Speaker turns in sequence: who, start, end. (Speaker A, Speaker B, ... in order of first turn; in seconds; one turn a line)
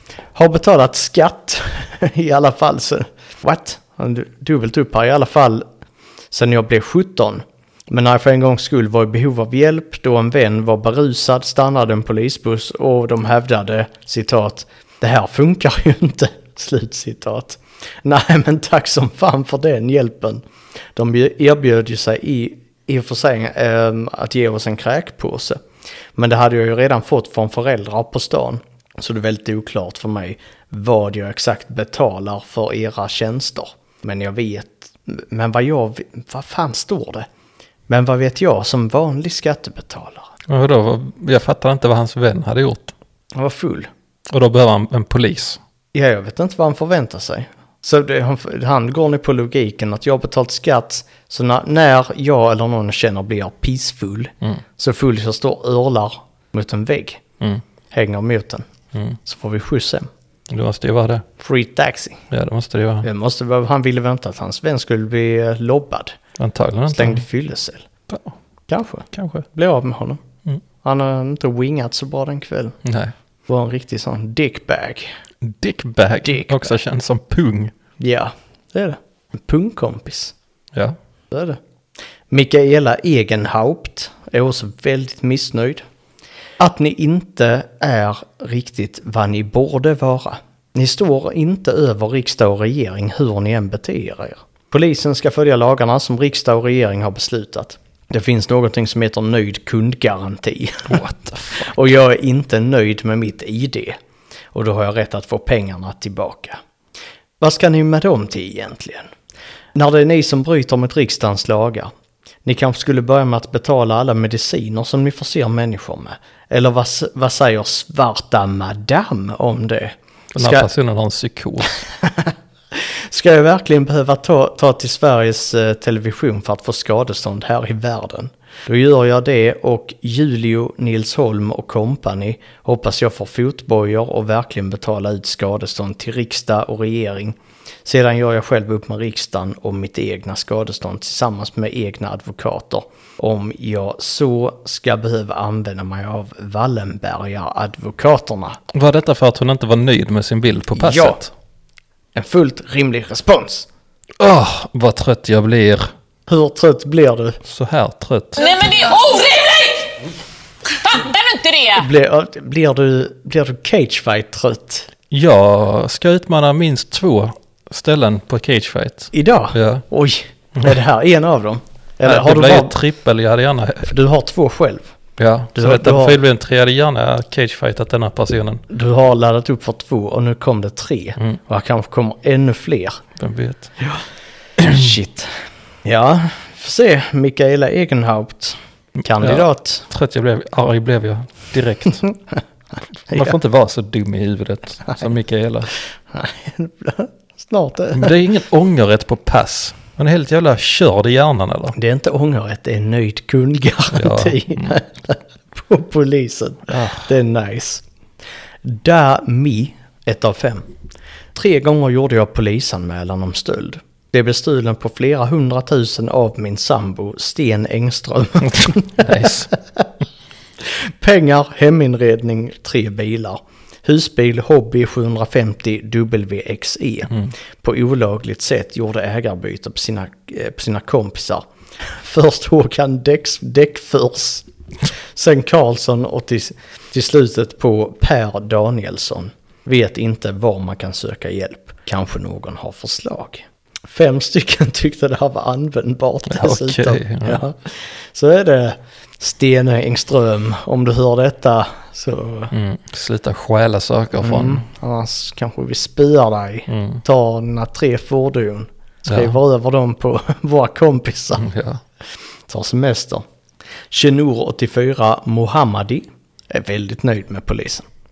Speaker A: 0.3-5.6
Speaker A: 6.3-25.6
Speaker A: 26.1-37.3
Speaker A: 37.9-40.3
Speaker B: 40.5-42.9
Speaker A: 43.3-43.9
Speaker B: 44.3-45.6
Speaker A: 45.9-57.2
Speaker A: 57.9-58.7
Speaker A: 59.2-60.1
Speaker B: 60.5-61.3
Speaker A: 61.4-62.2
Speaker B: 62.3-63.1
Speaker A: 63.0-66.2
Speaker B: 66.4-67.2
Speaker A: 66.9-67.9
Speaker B: 68.1-68.3
Speaker A: 68.7-70.2
Speaker B: 69.1-69.5
Speaker A: 70.8-72.8
Speaker B: 72.8-73.1
Speaker A: 73.5-75.1
Speaker B: 75.4-77.7
Speaker A: 76.2-76.7
Speaker A: 78.0-80.3
Speaker A: 81.3-81.6
Speaker A: 82.3-85.8
Speaker A: 86.6-104.0
Speaker B: 100.9-101.7
Speaker A: 104.5-106.6
Speaker A: 107.4-109.1
Speaker A: 109.7-111.9
Speaker A: 112.4-120.7
Speaker B: 120.3-121.8
Speaker A: 121.8-148.6
Speaker B: 148.7-151.3
Speaker A: 150.7-151.2
Speaker A: 152.1-153.7
Speaker B: 154.2-155.9
Speaker A: 156.3-157.4
Speaker B: 157.4-158.4
Speaker C: 158.4-160.0
Speaker C: 160.7-161.9
Speaker A: 161.7-164.9
Speaker B: 165.1-169.8
Speaker A: 169.1-172.8
Speaker B: 172.0-173.9
Speaker A: 173.8-174.9
Speaker B: 175.2-178.6
Speaker A: 175.5-176.2
Speaker A: 178.7-183.0
Speaker B: 183.2-183.7
Speaker A: 184.6-189.8
Speaker B: 189.0-192.1
Speaker B: 193.0-195.8
Speaker A: 196.1-198.2
Speaker B: 197.9-201.8
Speaker A: 201.7-207.8
Speaker B: 203.9-204.8
Speaker B: 206.7-207.0
Speaker A: 208.6-210.7
Speaker A: 211.3-219.9
Speaker B: 218.5-219.5
Speaker A: 220.6-252.5
Speaker B: 246.3-247.4
Speaker B: 252.5-254.7
Speaker A: 254.2-261.5
Speaker B: 256.7-257.0
Speaker B: 259.1-259.4
Speaker B: 261.4-261.8
Speaker A: 262.5-263.2
Speaker A: 263.9-267.9